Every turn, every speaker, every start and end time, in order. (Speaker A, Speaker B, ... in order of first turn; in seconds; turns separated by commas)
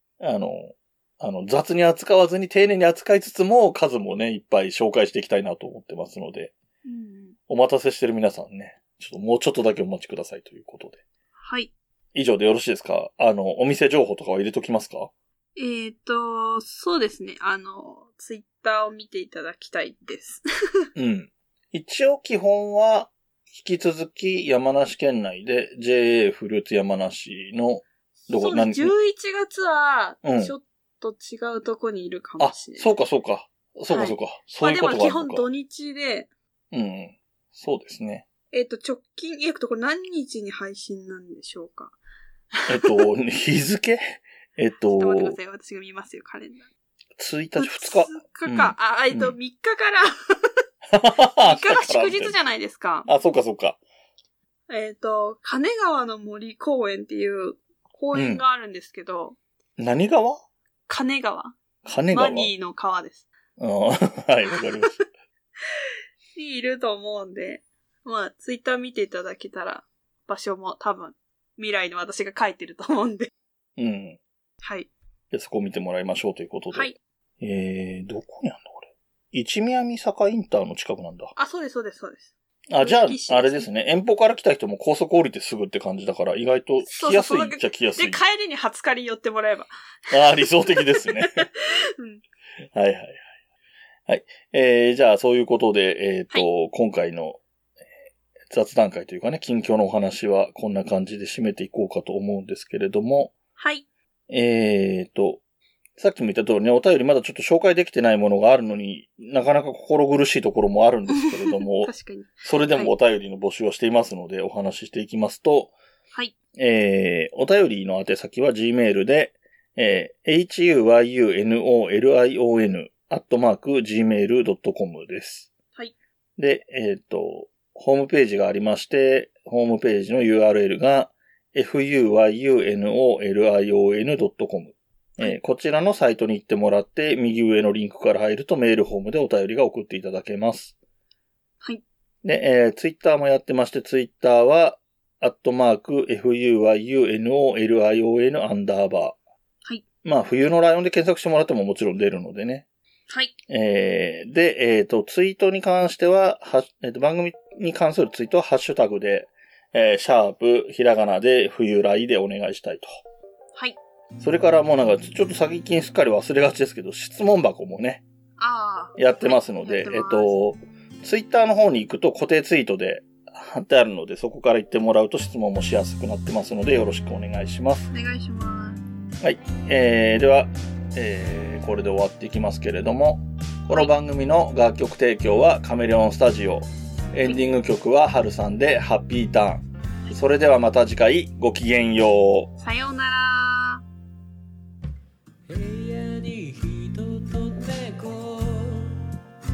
Speaker A: 0.2-6.5, Speaker B: 6.8-7.3, Speaker A: 7.5-11.0, Speaker B: 11.4-11.7, Speaker A: 12.1-15.1, Speaker B: 15.6-20.4, Speaker A: 20.9-28.9, Speaker B: 28.3-32.9, Speaker A: 30.2-30.5, Speaker A: 32.4-35.5, Speaker B: 33.9-36.3, Speaker A: 36.7-38.2, Speaker B: 38.5-41.9, Speaker B: 42.6-43.0, Speaker A: 42.7-45.4, Speaker B: 44.9-46.6, Speaker A: 47.2-49.4, Speaker B: 47.5-50.1, Speaker A: 50.9-52.3, Speaker B: 51.4-53.1, Speaker A: 53.0-53.8, Speaker B: 54.7-59.4, Speaker A: 58.1-58.4, Speaker A: 59.8-60.4, Speaker B: 60.9-61.6, Speaker A: 61.8-62.5, Speaker B: 62.1-63.2, Speaker A: 63.6-64.9, Speaker B: 66.3-73.3, Speaker A: 73.8-74.2, Speaker B: 74.6-74.9, Speaker A: 75.3-81.3, Speaker B: 81.3-83.7, Speaker A: 82.7-88.2, Speaker B: 86.8-92.2, Speaker A: 90.1-91.5, Speaker A: 92.7-93.2, Speaker A: 94.1-97.4, Speaker A: 98.5-103.3, Speaker B: 103.6-103.8, Speaker A: 104.3-105.4, Speaker A: 106.0-115.7, Speaker B: 111.3-112.9, Speaker A: 116.5-125.5, Speaker A: 126.4-140.7, Speaker A: 142.2-149.2, Speaker A: 150.0-152.6, Speaker A: 153.5-162.9, Speaker A: 164.2-168.0, Speaker B: 168.4-170.4, Speaker A: 169.0-177.9, Speaker B: 177.9-178.8, Speaker A: 179.2-192.5, Speaker B: 192.6-193.8, Speaker C: 195.5-199.0